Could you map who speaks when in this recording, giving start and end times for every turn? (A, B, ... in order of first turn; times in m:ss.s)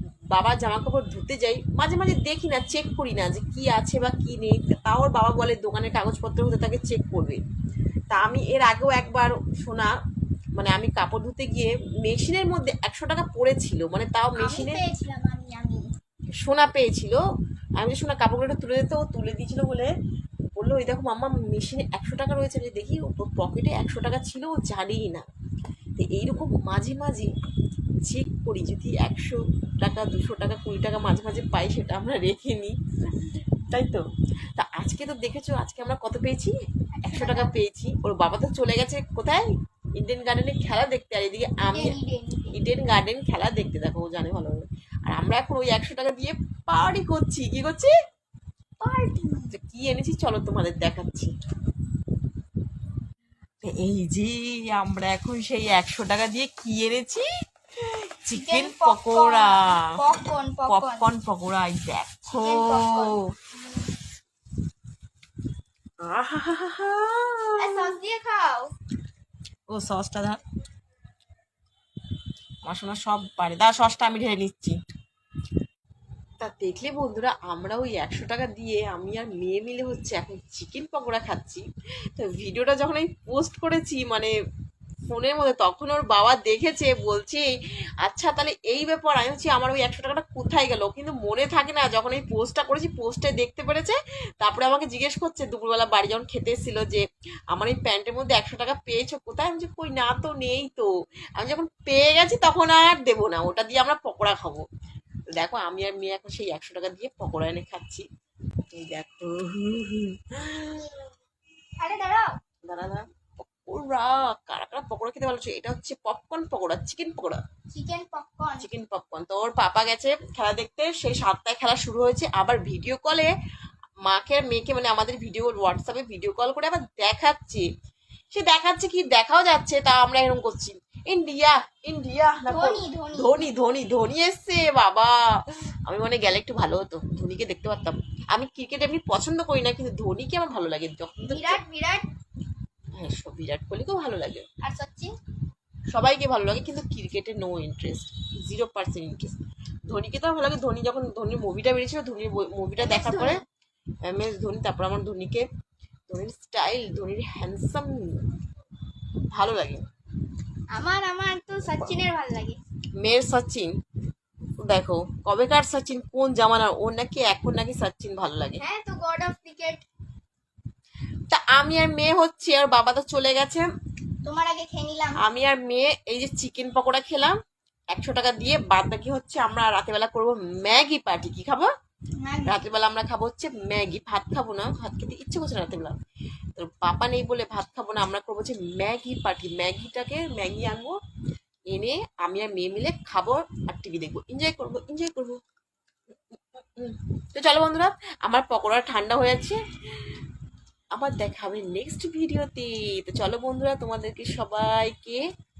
0:00.3-0:07.4 A
0:08.1-0:09.9 A
0:10.6-0:14.8 A
0:14.4-0:15.9 B
0:16.4-0:17.2 A
0:17.8-0:19.9 A
0:20.6-0:25.2 A
0:26.0-0:27.3 A
0:28.0-0:34.0 A
0:34.6-0:36.5 A
0:37.0-0:37.5 B
0:37.1-0:41.9 A
0:41.7-0:42.6 B
0:42.5-0:47.9 A
0:48.8-0:49.6 B
0:49.5-0:51.3 A
0:53.6-0:57.2 A
0:57.8-0:59.8 A
0:58.3-1:01.1 B
1:00.7-1:03.2 A
1:02.3-1:03.2 B
1:06.0-1:07.9 A
1:07.6-1:08.7 B
1:09.7-1:10.4 A
1:12.6-1:14.8 A
1:16.4-1:21.6 A
1:22.2-1:24.3 A
1:25.1-1:27.4 A
1:28.0-1:37.0 A
1:37.5-1:44.6 A
1:45.4-1:48.0 A
1:48.7-1:50.9 A
1:51.8-1:52.4 B
1:52.7-1:57.4 A
1:57.7-1:58.7 B
1:58.6-2:03.3 A
2:04.1-2:07.6 A
2:08.3-2:21.6 A
2:12.5-2:13.4 B
2:21.3-2:22.1 B
2:23.0-2:24.4 A
2:24.6-2:25.1 B
2:25.9-2:29.3 A
2:29.9-2:33.4 A
2:32.8-2:33.4 B
2:34.1-2:35.4 A
2:36.1-2:37.9 A
2:39.3-2:39.8 A
2:40.7-2:42.6 B
2:43.0-2:43.7 A
2:44.6-2:48.6 A
2:48.6-2:49.8 B
2:51.3-2:53.7 A
2:54.2-2:55.2 B
2:55.2-2:57.3 A
2:57.9-3:01.7 A
3:02.2-3:02.6 B
3:02.4-3:06.0 A
3:06.6-3:11.0 A
3:11.7-3:15.4 A
3:16.8-3:20.2 A
3:21.0-3:25.2 A